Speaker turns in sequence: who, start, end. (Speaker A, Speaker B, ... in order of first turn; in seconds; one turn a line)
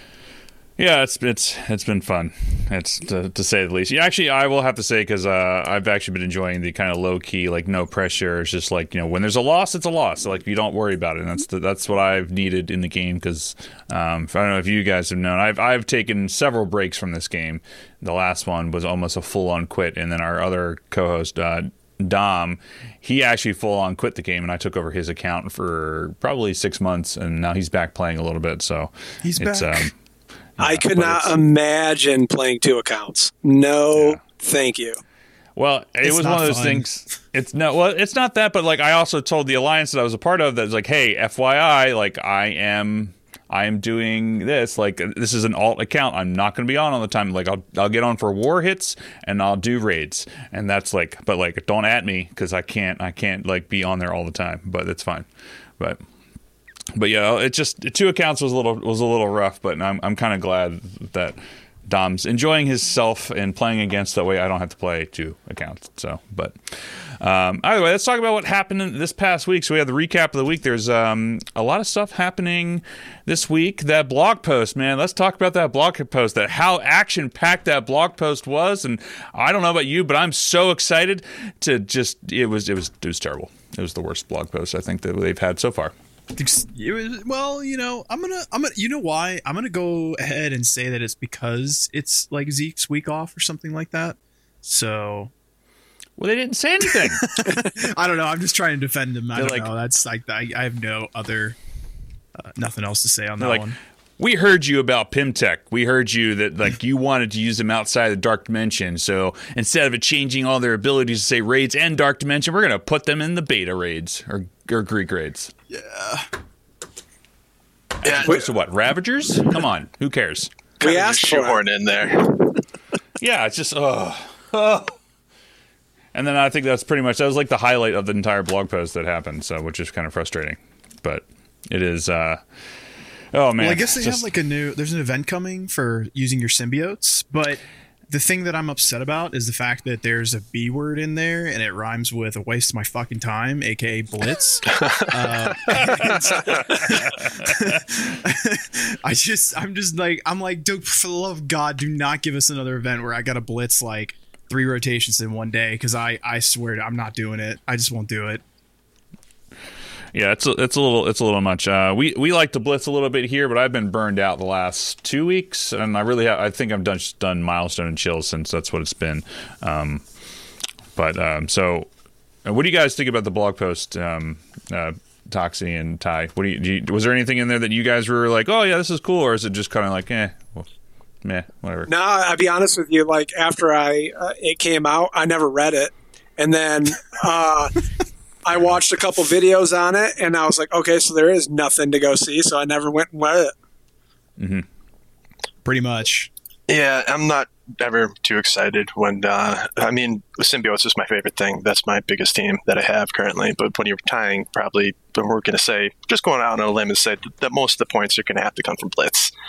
Speaker A: 0.8-29.9
Speaker B: 29.2-29.9
Speaker A: 30.6-31.4
Speaker C: 30.6-35.0
Speaker A: 35.5-55.3
Speaker B: 36.0-36.9
Speaker A: 56.9-85.9
Speaker B: 86.3-95.3
Speaker A: 96.2-97.4
Speaker B: 96.9-101.6
Speaker A: 99.3-99.7
Speaker B: 102.4-103.8
Speaker A: 103.4-115.5
Speaker B: 115.7-116.3
Speaker A: 118.0-120.5
Speaker D: 118.0-118.4
Speaker D: 120.8-122.5
Speaker C: 120.8-121.6
Speaker A: 123.2-125.0
Speaker A: 126.1-132.4
Speaker A: 133.3-134.2
Speaker B: 133.6-158.4
Speaker A: 145.8-146.2
Speaker A: 146.8-147.5
Speaker A: 160.1-170.0
Speaker A: 170.9-171.9
Speaker A: 172.4-180.7
Speaker A: 181.2-181.9
Speaker C: 181.9-187.8
Speaker C: 188.4-193.5
Speaker A: 194.4-194.6
Speaker B: 195.6-196.3
Speaker D: 196.7-209.3